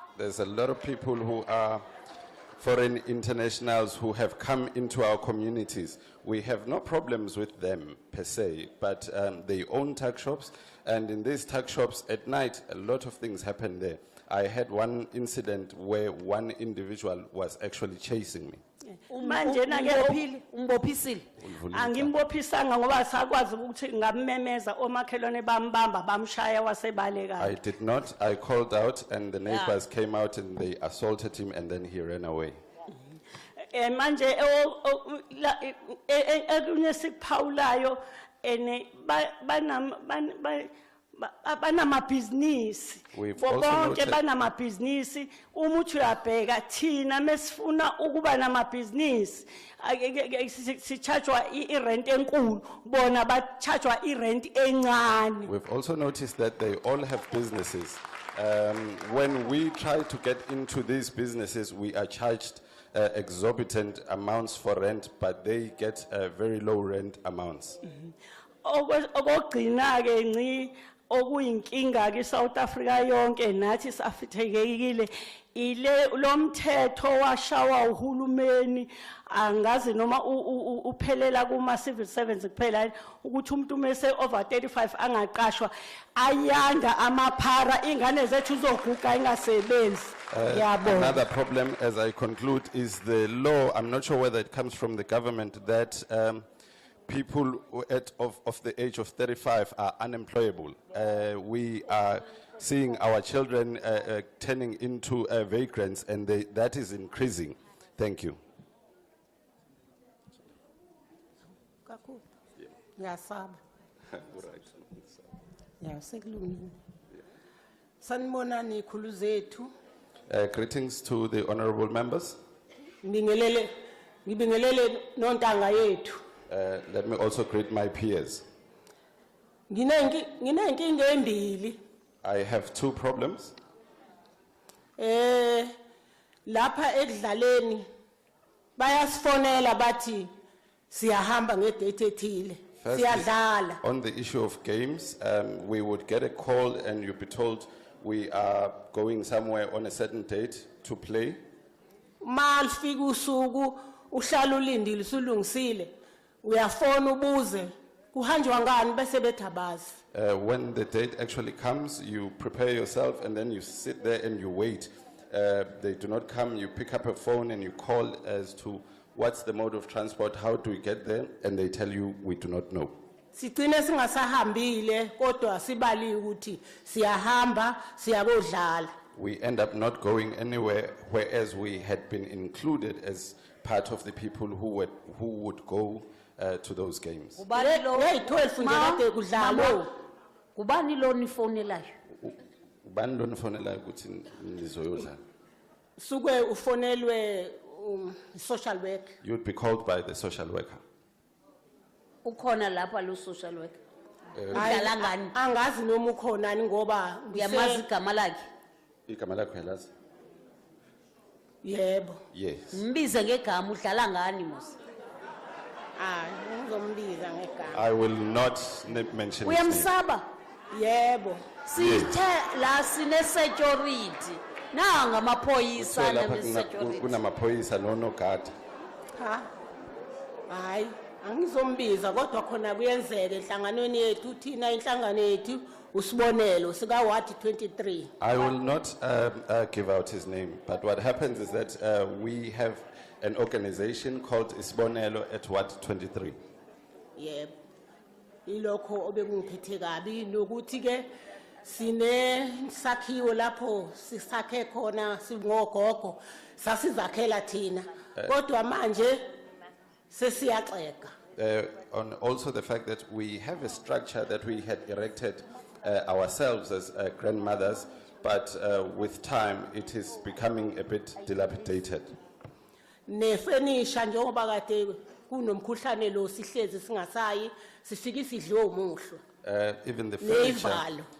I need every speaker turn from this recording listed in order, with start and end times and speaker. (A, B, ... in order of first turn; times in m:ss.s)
0:00.2-0:01.8 A
0:02.6-0:18.6 A
0:19.1-0:21.3 B
0:19.1-0:20.2 C
0:21.4-0:22.1 A
0:21.7-0:27.6 C
0:27.4-0:32.6 A
0:29.5-0:29.8 B
0:33.7-0:55.5 C
0:43.1-0:44.2 A
0:55.5-1:07.8 A
1:08.6-1:31.1 C
1:30.3-1:36.5 A
1:37.1-1:48.4 A
1:51.9-1:52.2 D
1:53.0-1:53.6 D
1:54.1-1:55.2 A
1:55.8-1:56.7 D
1:58.0-1:59.7 D
2:00.3-2:02.4 A
2:03.0-2:03.7 D
2:04.3-2:06.2 D
2:06.5-2:08.4 A
2:09.7-2:11.8 D
2:12.2-2:13.6 A
2:15.0-2:15.7 D
2:16.5-2:17.8 D
2:18.8-2:20.3 D
2:20.9-2:23.8 D
2:22.8-2:31.4 A
2:32.2-2:35.9 D
2:36.4-2:40.0 D
2:40.1-2:53.0 A
2:53.3-2:58.9 D
2:59.2-3:07.4 A
3:07.4-3:09.9 B
3:07.6-3:09.8 D
3:10.6-3:11.9 B
3:12.2-3:15.2 A
3:16.0-3:19.1 D
3:19.2-3:20.8 A
3:22.2-3:23.8 B
3:24.4-3:24.8 A
3:24.5-3:25.3 B
3:24.5-3:27.8 D
3:27.3-3:28.4 B
3:29.1-3:29.9 A
3:31.6-3:32.2 D
3:32.3-3:32.8 A
3:32.7-3:34.8 B
3:36.0-3:37.8 D
3:37.7-3:39.9 A
3:39.4-3:40.2 B
3:40.7-3:41.4 D
3:41.7-3:47.2 B
3:41.8-3:42.2 A
3:45.8-3:48.5 A
3:49.2-3:49.5 D
3:50.5-3:58.1 D
3:58.2-4:06.4 A
4:07.2-4:07.5 D
4:08.5-4:11.1 D
4:11.6-4:19.3 D
4:20.1-4:21.1 D
4:21.4-4:32.1 A
4:33.1-4:39.2 D
4:39.4-4:40.9 A
4:40.2-4:41.0 D